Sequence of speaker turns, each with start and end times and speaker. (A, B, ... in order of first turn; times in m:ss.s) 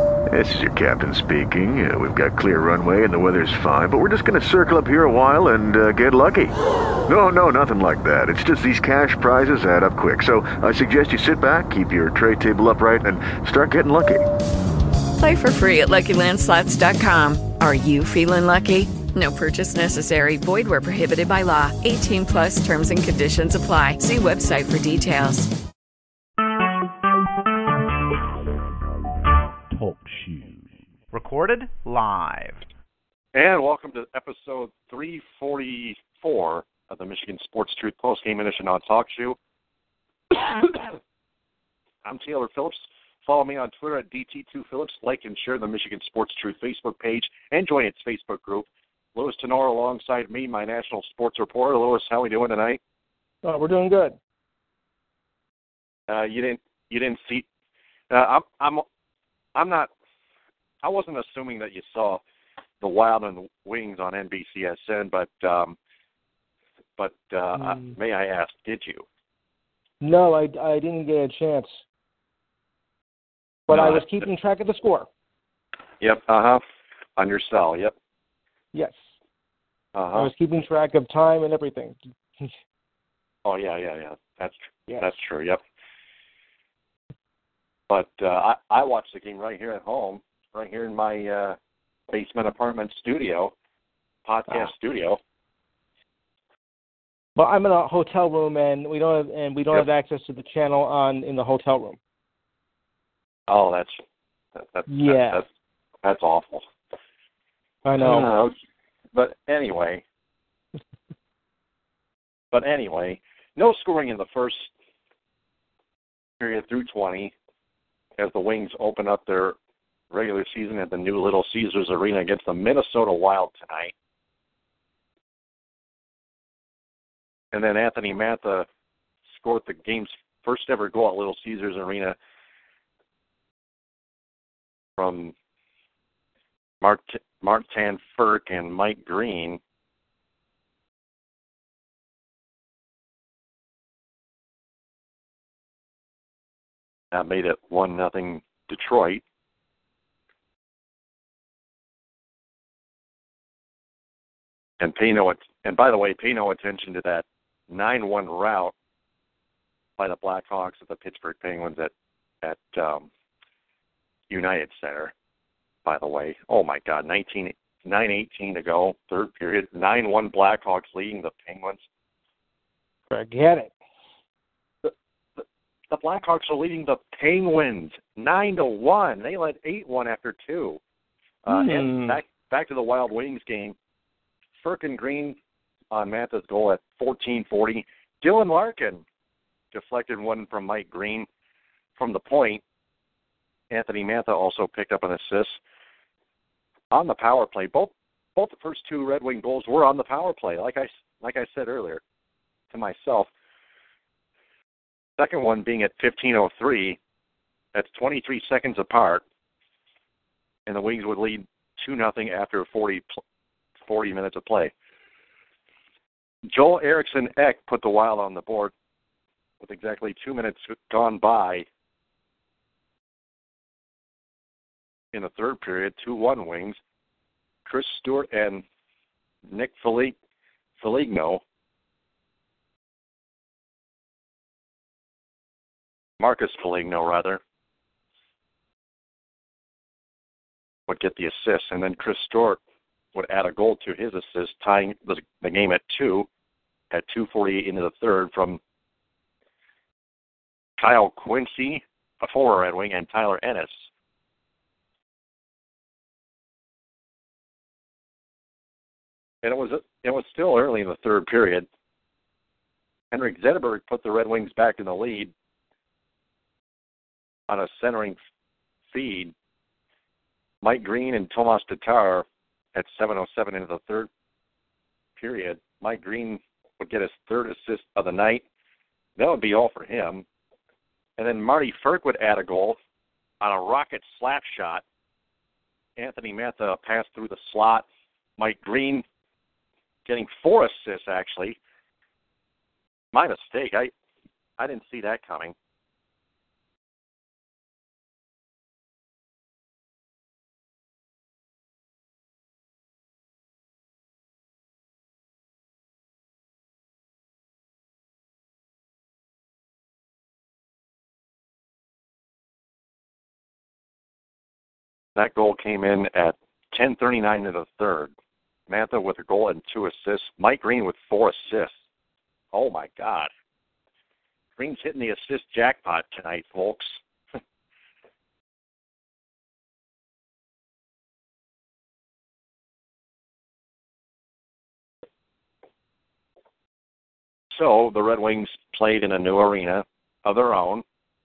0:00.3-0:06.5 A
0:07.1-0:14.2 A
0:15.2-0:25.5 B
0:29.7-0:32.7 C
0:33.3-0:39.4 D
0:40.5-0:40.9 D
0:42.0-0:52.8 D
0:53.4-0:54.2 E
0:56.1-0:57.4 D
0:58.1-0:58.8 D
0:59.6-0:59.9 D
1:00.8-1:02.2 D
1:02.8-1:05.8 D
1:07.0-1:09.0 D
1:07.6-1:07.9 E
1:10.0-1:11.8 E
1:13.7-1:15.1 E
1:13.7-1:14.0 D
1:16.0-1:16.6 D
1:17.2-1:17.9 D
1:18.7-1:19.0 E
1:20.0-1:20.3 D
1:20.2-1:22.5 E
1:23.4-1:25.6 D
1:27.9-1:31.6 D
1:32.1-1:33.5 D
1:34.3-1:35.2 D
1:37.4-1:42.0 E
1:43.5-1:44.0 D
1:44.6-1:45.4 D
1:44.9-1:45.4 E
1:46.0-1:46.6 D
1:47.8-1:48.3 E
1:48.0-1:48.6 D
1:49.1-1:50.0 D
1:52.5-1:54.7 D
1:56.4-1:57.3 D
1:58.2-1:59.6 D
2:00.1-2:03.9 D
2:07.5-2:08.7 D
2:09.3-2:12.2 D
2:15.0-2:15.3 D
2:16.8-2:19.6 D
2:27.1-2:29.2 D
2:34.8-2:38.7 D
2:40.0-2:41.9 D
2:42.4-2:43.1 D
2:44.3-2:45.1 D
2:45.8-2:51.8 D
2:53.1-2:53.7 E
2:54.8-3:00.8 D
3:01.4-3:03.8 D
3:01.5-3:02.2 E
3:04.6-3:05.4 D
3:05.9-3:09.0 D
3:09.7-3:11.3 D
3:12.0-3:12.6 D
3:13.7-3:15.6 D
3:16.9-3:22.0 D
3:22.7-3:23.3 D
3:25.2-3:27.0 D
3:27.7-3:29.2 D
3:30.7-3:33.0 D
3:33.9-3:34.7 D
3:36.5-3:38.7 D
3:39.6-3:41.7 D
3:45.1-3:46.8 D
3:47.7-3:48.6 D
3:49.5-3:50.2 D
3:50.8-3:51.4 D
3:56.2-3:57.4 D
4:00.9-4:02.6 D
4:03.1-4:06.3 D
4:06.9-4:08.6 D
4:10.8-4:13.8 D
4:19.4-4:21.7 D
4:23.1-4:25.3 D
4:27.5-4:28.2 D
4:28.9-4:29.3 D
4:30.6-4:34.1 D
4:35.2-4:38.4 D
4:39.2-4:40.2 D
4:41.2-4:42.8 D
4:43.4-4:44.8 D
4:46.0-4:47.8 D
4:48.4-4:49.0 D
4:50.1-4:51.6 D
4:53.1-4:53.9 D
4:54.6-4:55.5 D
5:15.2-5:18.1 D
5:18.7-5:21.7 D
5:22.5-5:23.3 D
5:24.6-5:27.0 D
5:37.5-5:40.8 D